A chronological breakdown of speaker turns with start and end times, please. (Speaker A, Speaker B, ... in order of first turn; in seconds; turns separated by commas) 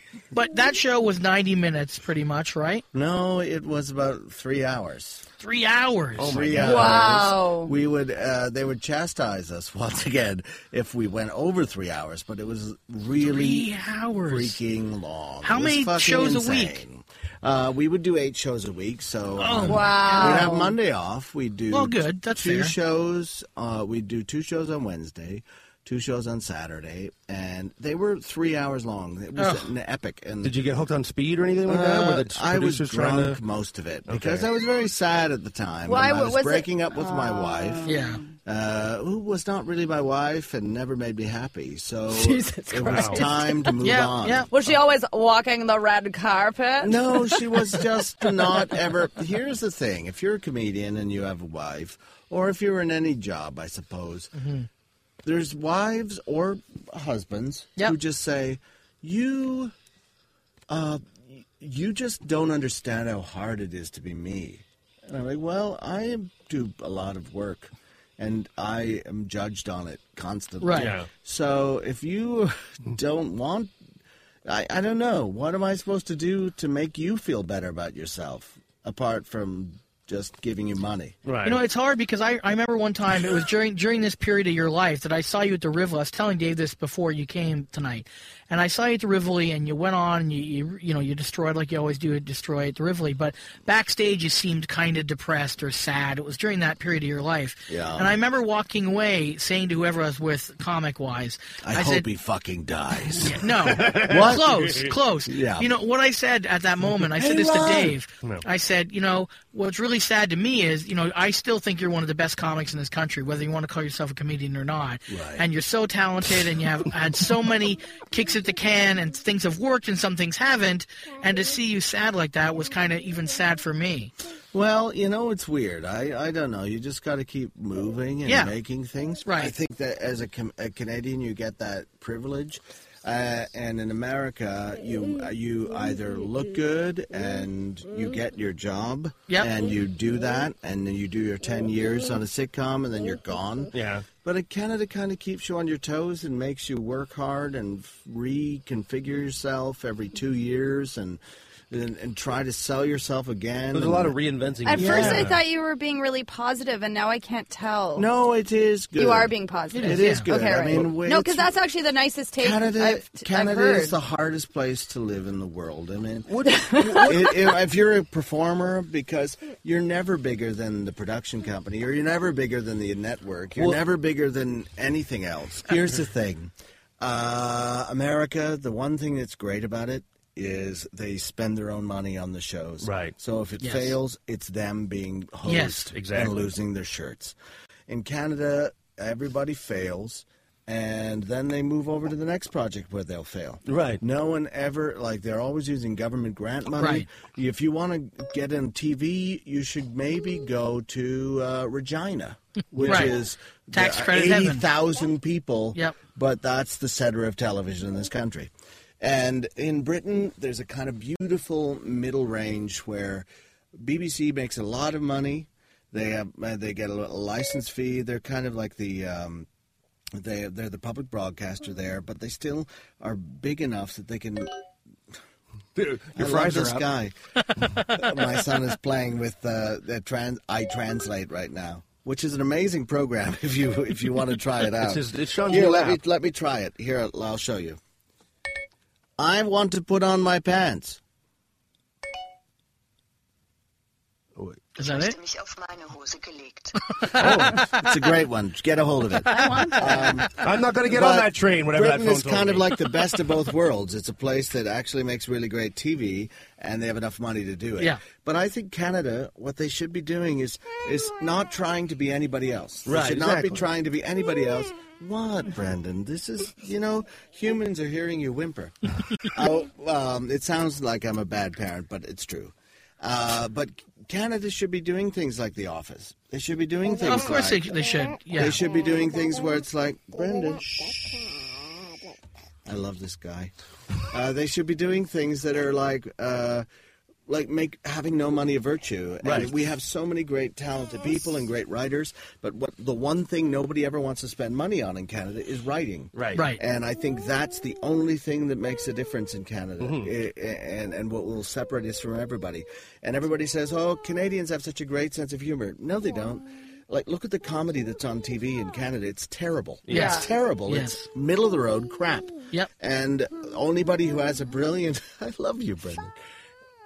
Speaker A: 0.3-2.8, Speaker B: 2.9-5.2, Speaker A: 5.4-6.6, Speaker C: 6.2-7.2, Speaker B: 6.3-13.7, Speaker D: 6.6-7.7, Speaker A: 13.2-14.6, Speaker B: 14.3-30.6, Speaker A: 15.4-16.8, Speaker A: 19.4-20.5, Speaker D: 19.6-20.8, Speaker A: 21.7-22.7, Speaker A: 29.4-29.7, Speaker C: 30.4-33.4, Speaker B: 31.7-37.9, Speaker C: 34.1-34.5, Speaker D: 35.9-38.3, Speaker A: 37.9-38.2, Speaker B: 38.5-44.5, Speaker D: 42.1-43.8, Speaker C: 42.8-43.2, Speaker A: 43.8-44.5, Speaker D: 44.5-47.6, Speaker B: 46.8-54.3, Speaker A: 54.4-54.7, Speaker B: 55.2-59.7, Speaker B: 60.7-73.7, Speaker A: 70.6-70.9, Speaker C: 70.8-71.1, Speaker B: 74.5-81.2, Speaker C: 81.2-81.6, Speaker A: 81.4-102.1, Speaker B: 97.7-98.2, Speaker B: 101.7-105.7, Speaker A: 103.1-124.1, Speaker C: 103.6-104.9, Speaker B: 107.2-108.0, Speaker B: 115.1-115.5, Speaker B: 124.5-154.2, Speaker A: 128.2-128.5, Speaker A: 129.2-129.5, Speaker C: 143.7-144.1, Speaker C: 153.7-155.4, Speaker D: 154.7-158.1, Speaker B: 154.7-155.4, Speaker B: 158.0-161.6, Speaker D: 159.0-164.0, Speaker A: 159.7-160.3, Speaker B: 162.4-187.3, Speaker C: 166.3-166.5, Speaker D: 166.5-167.4, Speaker C: 173.6-173.8, Speaker C: 182.8-183.1, Speaker A: 183.6-184.0, Speaker A: 185.4-185.9, Speaker C: 186.0-186.5, Speaker B: 187.9-213.3, Speaker C: 193.7-194.0, Speaker A: 196.8-197.1, Speaker C: 202.8-203.2, Speaker A: 202.8-204.7, Speaker B: 213.8-219.5, Speaker B: 220.2-224.5, Speaker C: 225.8-226.9, Speaker B: 226.1-227.2, Speaker B: 227.8-237.8, Speaker C: 234.6-236.0, Speaker B: 239.2-241.0, Speaker C: 244.4-244.6, Speaker A: 244.8-245.2, Speaker B: 247.1-281.1, Speaker C: 247.2-247.5, Speaker D: 249.3-250.2, Speaker A: 249.3-249.6, Speaker C: 250.3-252.8, Speaker A: 257.8-258.0, Speaker C: 262.9-263.7, Speaker A: 277.0-278.6, Speaker B: 282.7-283.5, Speaker B: 284.1-286.7, Speaker B: 287.3-316.1, Speaker C: 289.2-289.6, Speaker C: 296.1-296.4, Speaker A: 296.4-296.6, Speaker C: 299.8-300.1, Speaker C: 309.9-310.2, Speaker D: 309.9-310.3, Speaker A: 309.9-311.1